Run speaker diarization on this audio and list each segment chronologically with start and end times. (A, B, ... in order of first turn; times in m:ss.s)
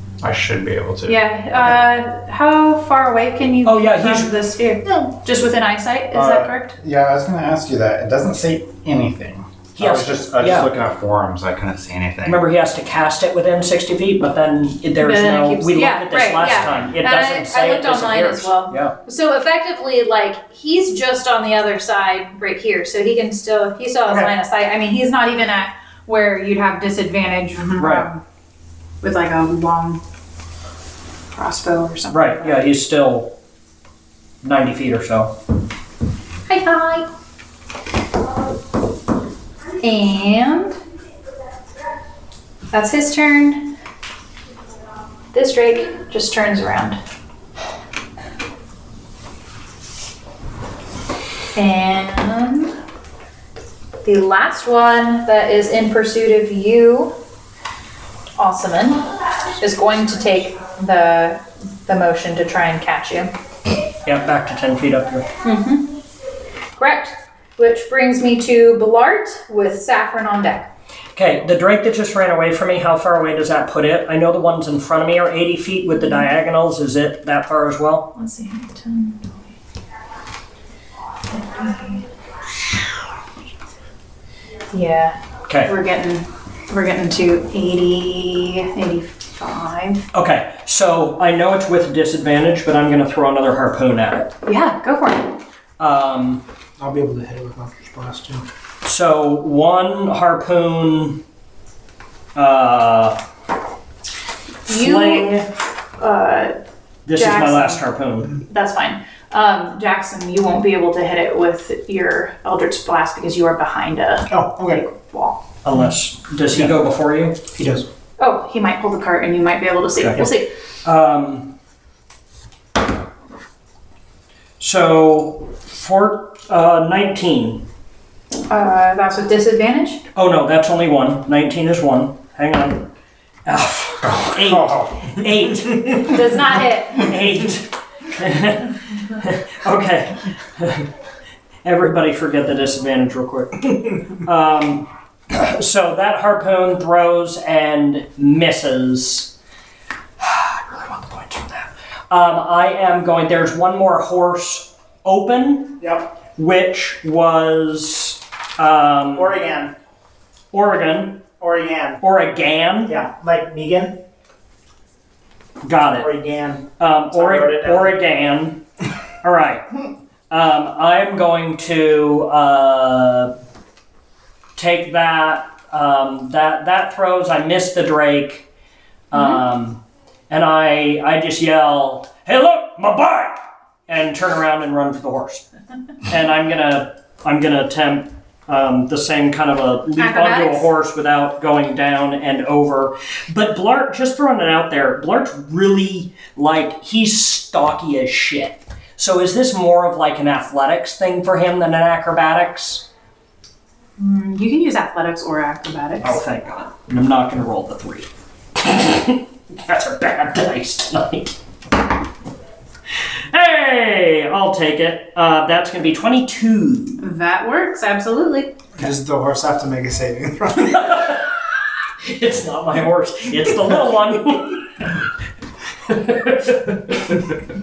0:00.2-0:01.2 A
0:01.1-0:06.8 B
0:03.6-0:04.3 C
0:06.1-0:12.4 A
0:09.8-0:10.7 C
0:12.3-0:19.0 C
0:15.0-0:28.2 B
0:27.8-0:28.1 C
0:29.0-0:30.0 B
0:31.3-0:32.6 B
0:32.1-0:33.3 C
0:34.4-0:35.4 C
0:36.5-0:37.1 B
0:39.8-0:40.8 B
0:42.7-0:43.8 B
0:45.3-0:47.0 B
0:51.6-0:52.8 B
0:54.0-0:57.2 B
0:58.4-1:03.3 B
1:04.0-1:05.3 C
1:05.4-1:06.0 B
1:06.8-1:10.7 B
1:11.2-1:18.1 C
1:16.0-1:16.3 B
1:18.2-1:19.5 B
1:21.3-1:22.0 B
1:24.7-1:30.1 B
1:25.5-1:25.7 C
1:30.1-1:34.3 C
1:34.5-1:35.4 B
1:35.8-1:36.4 C
1:36.8-1:38.5 D
1:38.8-1:41.2 C
1:42.4-1:43.2 C
1:44.7-1:45.4 B
1:44.7-1:45.5 C
1:46.0-1:46.6 B
1:47.1-1:48.4 C
1:47.1-1:47.8 B
1:48.4-1:55.4 B
1:54.3-1:54.8 D
1:55.6-1:57.4 C
1:56.5-1:56.8 D
1:57.6-1:57.9 D
1:58.2-2:00.5 B
2:00.0-2:00.3 C
2:00.8-2:01.6 C
2:04.6-2:07.7 C
2:08.5-2:10.0 B
2:10.2-2:12.9 C
2:13.5-2:16.3 C
2:14.0-2:15.2 A
2:16.0-2:17.1 B
2:16.9-2:20.9 C
2:21.6-2:29.3 C
2:30.2-2:39.4 C
2:35.8-2:36.1 D
2:39.2-2:39.7 D
2:40.5-2:41.3 C
2:41.4-2:42.0 D
2:42.0-2:42.9 C
2:42.9-2:44.0 D
2:45.6-2:46.1 C
2:45.9-2:48.0 D
2:46.8-2:48.6 C
2:49.2-2:49.7 C
2:50.3-2:53.3 C
2:54.6-2:58.5 C
2:59.1-3:05.4 C
2:59.1-2:59.4 B
3:06.1-3:22.9 C
3:10.0-3:10.7 B
3:24.0-3:26.2 B
3:26.0-3:31.4 C
3:33.3-3:37.0 C
3:37.0-3:38.6 B
3:38.8-3:41.1 D
3:40.8-3:41.4 C
3:42.0-3:44.9 C
3:45.9-3:47.0 C